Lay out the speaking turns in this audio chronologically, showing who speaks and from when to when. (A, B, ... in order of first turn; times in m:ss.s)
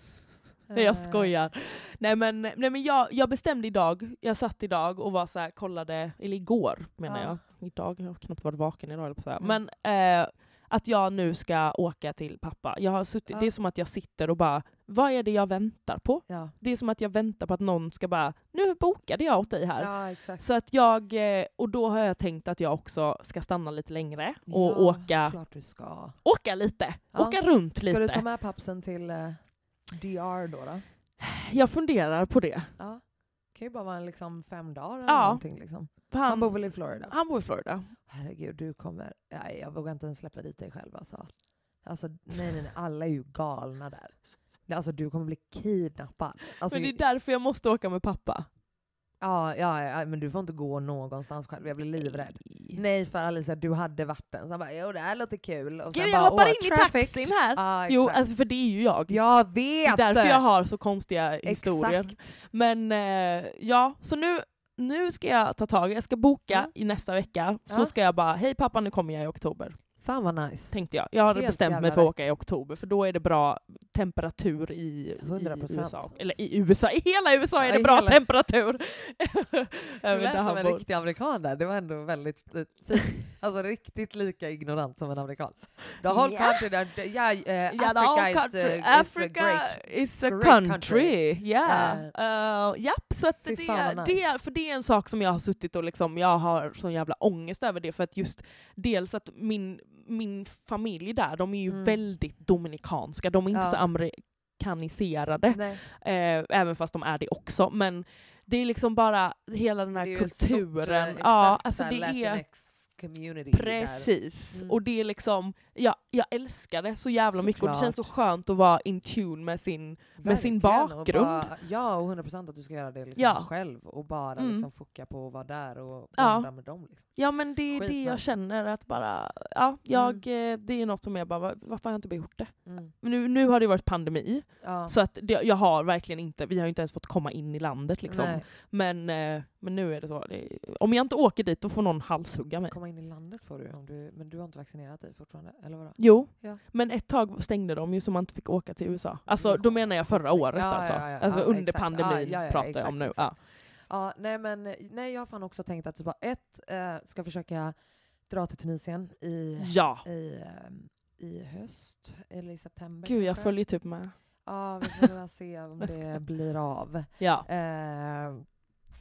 0:00.7-0:01.3 A
0:00.7-0:25.4 B
0:07.1-0:07.4 A
0:16.3-0:16.5 A
0:19.8-0:20.4 A
0:24.5-0:26.2 A
0:26.2-0:28.2 B
0:27.1-0:30.8 A
0:31.2-0:32.7 B
0:32.8-0:37.2 A
0:35.1-0:38.0 B
0:38.1-0:41.3 A
0:41.8-0:44.2 A
0:44.7-0:47.0 A
0:46.7-0:48.5 B
0:49.2-0:58.2 A
0:52.0-0:52.8 B
0:55.9-0:59.2 B
0:59.1-1:00.4 A
0:59.8-1:09.8 B
1:01.4-1:02.4 A
1:07.7-1:07.9 A
1:10.0-1:10.8 A
1:10.7-1:20.8 B
1:11.3-1:12.1 A
1:15.2-1:16.1 A
1:17.6-1:18.2 A
1:20.1-1:32.1 A
1:26.0-1:26.6 B
1:27.7-1:52.4 B
1:33.4-1:34.3 A
1:41.7-1:42.0 A
1:43.5-1:43.8 A
1:45.5-1:45.8 A
1:49.9-1:54.8 A
1:53.5-2:01.5 B
1:57.3-1:58.1 A
2:00.2-2:08.2 A
2:03.2-2:03.5 B
2:04.4-2:04.7 B
2:06.2-2:22.8 B
2:09.9-2:10.2 A
2:12.7-2:12.9 A
2:14.6-2:14.9 A
2:18.1-2:18.4 A
2:22.7-2:26.6 A
2:26.0-2:33.4 B
2:29.3-2:37.7 A
2:38.3-2:43.5 A
2:39.6-2:40.0 B
2:43.0-2:44.2 B
2:44.4-2:48.4 A
2:44.8-2:45.1 B
2:45.8-2:46.2 B
2:47.2-2:47.5 B